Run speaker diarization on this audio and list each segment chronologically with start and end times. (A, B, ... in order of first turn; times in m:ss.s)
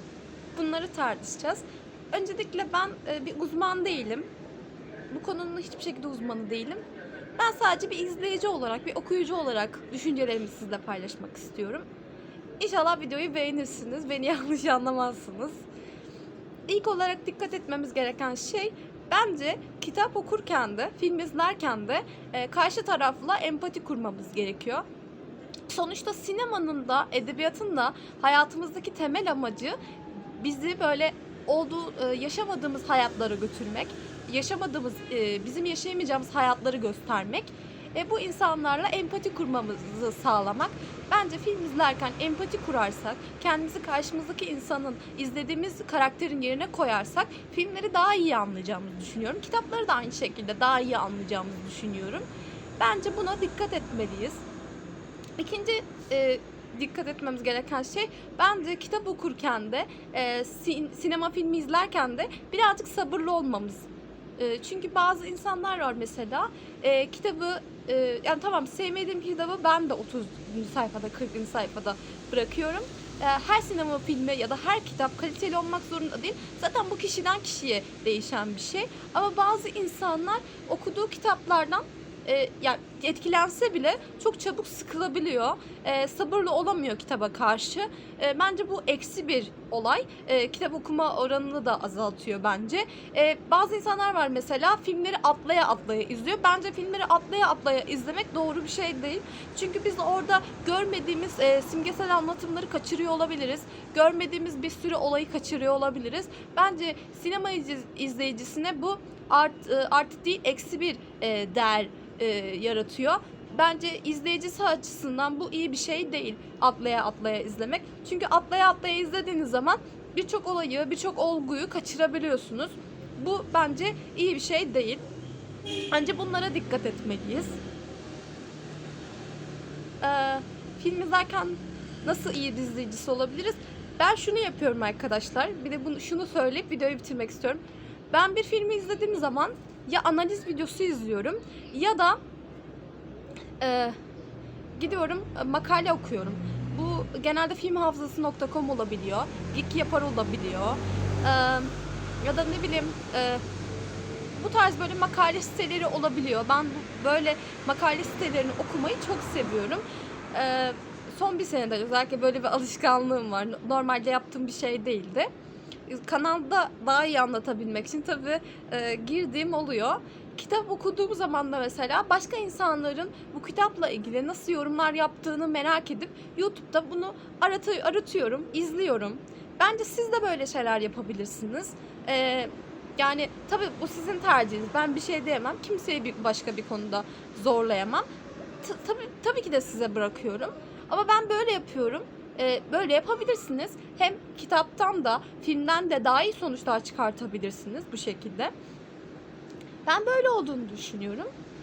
0:00.5-0:04.3 A
0:05.1-0:06.8 A
0:07.4-0:11.9 A
0:12.6-0:15.6 A
0:16.7-0:24.8 A
0:25.7-0:52.2 A
0:52.8-0:54.4 A
0:55.4-2:05.0 A
2:05.9-2:07.6 A
2:10.0-2:22.2 A
2:23.6-2:24.0 A
2:24.8-2:33.4 A
2:34.4-2:45.3 A
2:45.9-3:08.0 A
3:08.6-3:18.5 A
3:19.8-3:21.3 A